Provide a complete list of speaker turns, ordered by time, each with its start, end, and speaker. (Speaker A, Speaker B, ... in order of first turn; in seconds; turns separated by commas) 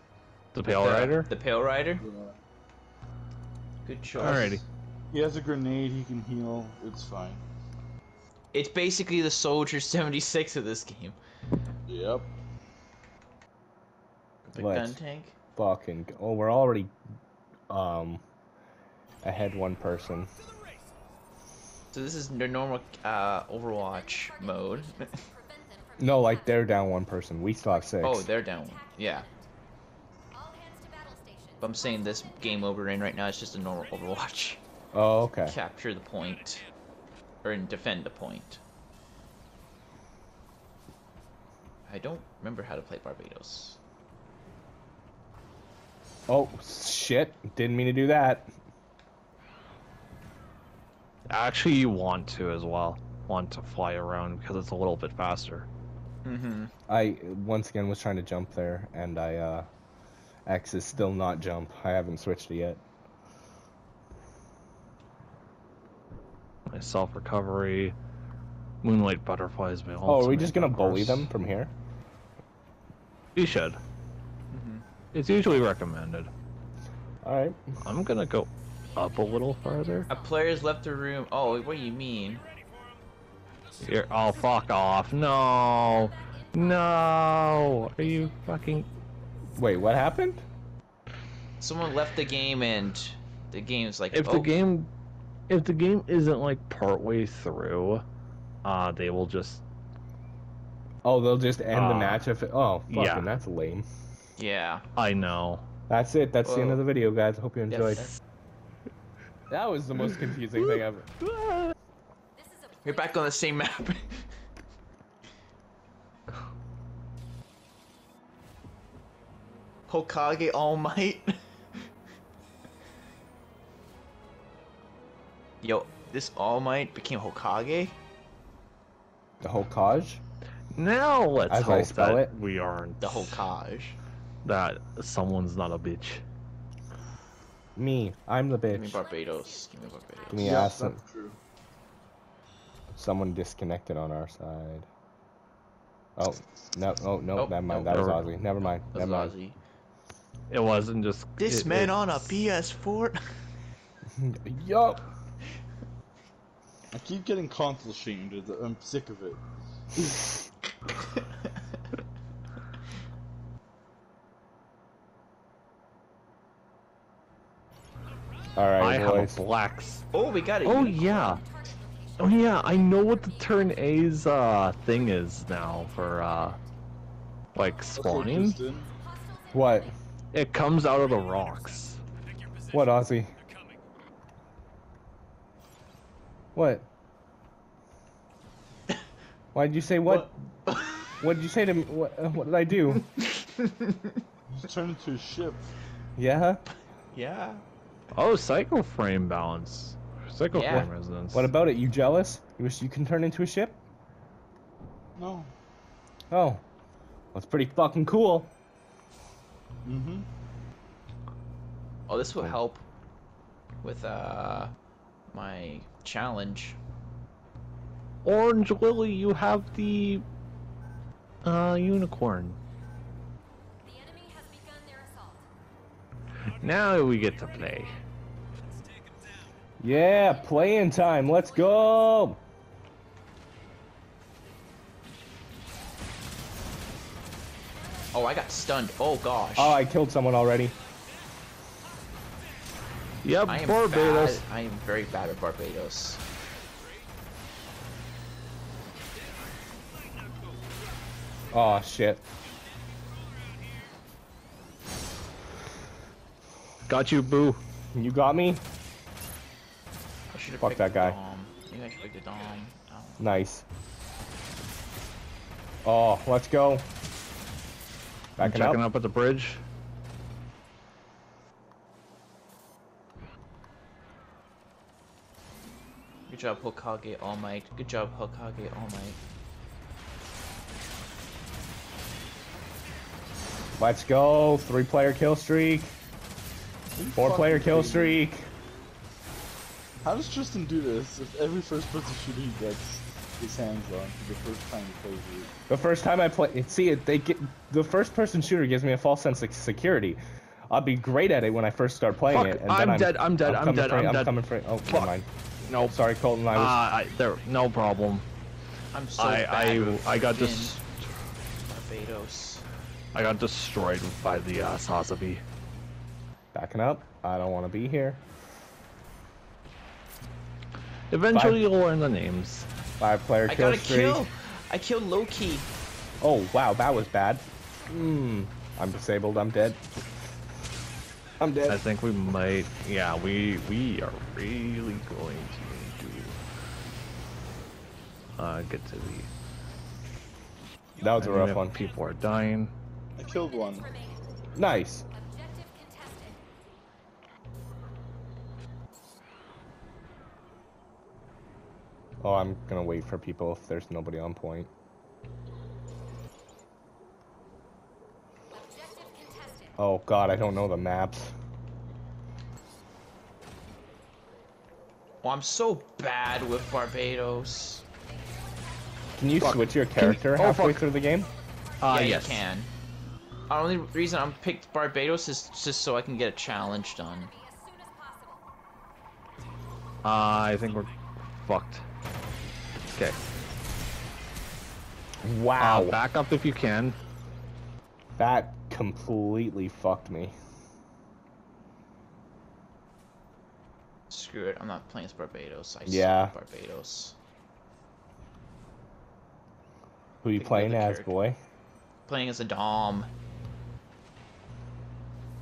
Speaker A: 0.5-1.3, Speaker B: 0.7-2.0, Speaker C: 2.0-2.4, Speaker B: 3.8-4.6, Speaker A: 4.2-4.6, Speaker C: 5.1-7.4, Speaker B: 8.5-11.2, Speaker C: 11.9-12.3, Speaker B: 14.5-15.3, Speaker D: 14.6-15.0, Speaker D: 15.6-16.9, Speaker D: 17.7-18.2, Speaker D: 19.2-20.3, Speaker B: 21.9-25.1, Speaker E: 24.2-26.4, Speaker D: 26.0-28.2, Speaker B: 28.0-29.2, Speaker E: 28.4-29.5, Speaker E: 30.3-31.6, Speaker B: 31.6-34.6, Speaker D: 34.9-35.5, Speaker B: 35.4-36.6, Speaker B: 37.4-38.6, Speaker B: 41.9-43.8, Speaker D: 46.3-48.5, Speaker A: 51.3-55.7, Speaker B: 56.2-56.7, Speaker D: 56.9-59.7, Speaker D: 60.5-62.8, Speaker A: 66.7-67.9, Speaker A: 68.8-71.3, Speaker D: 70.0-71.7, Speaker A: 73.3-73.8, Speaker B: 74.5-74.8, Speaker A: 75.1-76.3, Speaker D: 77.2-77.6, Speaker A: 77.8-80.1, Speaker E: 78.9-80.2, Speaker B: 80.1-82.4, Speaker A: 83.8-88.9, Speaker E: 86.1-88.9, Speaker D: 89.5-90.4, Speaker B: 91.6-94.5, Speaker A: 94.1-94.9, Speaker A: 95.5-98.0, Speaker A: 98.6-99.6, Speaker D: 101.0-103.8, Speaker A: 101.7-102.3, Speaker A: 102.9-103.3, Speaker B: 104.4-104.8, Speaker A: 105.0-105.7, Speaker D: 105.9-108.0, Speaker B: 106.4-106.8, Speaker B: 107.7-108.2, Speaker D: 109.5-111.0, Speaker A: 110.6-111.7, Speaker E: 112.4-113.0, Speaker B: 112.8-114.2, Speaker B: 119.9-121.3, Speaker B: 125.6-128.0, Speaker D: 129.4-130.2, Speaker A: 130.7-133.4, Speaker D: 131.5-132.3, Speaker B: 133.0-134.0, Speaker A: 134.4-136.2, Speaker D: 137.8-139.0, Speaker B: 138.7-140.6, Speaker E: 139.3-140.5, Speaker D: 140.3-141.0, Speaker C: 140.3-141.4, Speaker D: 142.9-144.9, Speaker D: 146.2-149.3, Speaker B: 147.3-148.1, Speaker A: 147.9-148.2, Speaker B: 148.8-149.6, Speaker A: 150.5-152.1, Speaker B: 151.4-153.2, Speaker D: 154.1-155.0, Speaker C: 156.9-159.4, Speaker D: 168.5-169.4, Speaker A: 168.8-170.0, Speaker B: 170.1-171.0, Speaker A: 170.6-171.4, Speaker E: 171.1-174.1, Speaker A: 172.2-176.6, Speaker E: 175.8-176.7, Speaker A: 177.5-178.6, Speaker C: 177.9-178.9, Speaker E: 178.9-179.9, Speaker D: 179.5-179.9, Speaker A: 180.3-182.0, Speaker D: 182.7-183.3, Speaker D: 186.5-186.8, Speaker D: 189.5-190.3, Speaker B: 190.0-191.1, Speaker D: 191.2-193.1, Speaker B: 193.2-194.1, Speaker C: 194.5-195.6, Speaker D: 196.2-196.6, Speaker B: 197.1-197.6, Speaker A: 198.1-201.5, Speaker B: 200.5-200.9, Speaker D: 201.3-203.8, Speaker C: 205.2-205.5, Speaker D: 206.3-206.6, Speaker D: 207.3-208.5, Speaker C: 209.8-210.3, Speaker B: 212.1-212.8, Speaker B: 213.8-214.7, Speaker B: 215.3-216.8, Speaker A: 218.2-220.2, Speaker A: 221.4-222.6, Speaker E: 223.8-225.4, Speaker A: 226.6-228.0, Speaker D: 229.8-232.4, Speaker E: 230.3-232.1, Speaker B: 238.1-239.8, Speaker D: 239.6-240.7, Speaker A: 243.2-244.4, Speaker B: 243.5-246.2, Speaker D: 251.5-252.2, Speaker A: 256.9-257.6, Speaker D: 257.9-258.6, Speaker B: 260.3-263.3, Speaker D: 260.6-261.1, Speaker D: 263.2-263.6, Speaker D: 265.8-266.9, Speaker D: 268.4-268.8, Speaker A: 268.4-269.6, Speaker B: 276.3-279.2, Speaker D: 283.8-285.9, Speaker C: 286.9-288.2, Speaker D: 287.1-288.4, Speaker C: 290.0-295.5, Speaker D: 295.7-305.2, Speaker A: 302.3-305.1, Speaker A: 305.6-306.0, Speaker D: 305.9-306.8, Speaker A: 306.5-308.2, Speaker B: 308.9-310.8, Speaker A: 309.2-310.8, Speaker B: 311.7-312.6, Speaker A: 313.1-315.4, Speaker D: 316.5-318.2, Speaker A: 321.1-322.7, Speaker D: 321.3-321.7, Speaker D: 323.0-324.2, Speaker B: 323.5-325.7, Speaker D: 326.2-329.8, Speaker D: 331.4-331.8, Speaker A: 331.7-336.4, Speaker A: 338.4-339.3, Speaker D: 341.0-341.8, Speaker A: 341.2-342.7, Speaker C: 343.2-344.0, Speaker E: 343.4-344.2, Speaker D: 344.5-345.1, Speaker E: 345.1-346.4, Speaker D: 352.2-354.7, Speaker E: 358.5-359.7, Speaker D: 359.8-361.3, Speaker B: 365.2-367.8, Speaker E: 367.9-369.3, Speaker D: 369.2-371.3, Speaker A: 369.4-370.9, Speaker E: 371.3-371.8, Speaker A: 371.8-372.4, Speaker B: 371.8-372.7, Speaker B: 373.5-377.3, Speaker E: 376.9-378.4, Speaker A: 380.0-380.9, Speaker A: 381.4-381.8, Speaker D: 385.2-386.0, Speaker A: 385.6-387.0, Speaker D: 388.2-390.3, Speaker B: 394.1-397.1, Speaker D: 395.9-396.3, Speaker D: 400.2-401.4, Speaker B: 400.4-401.1, Speaker B: 402.1-403.1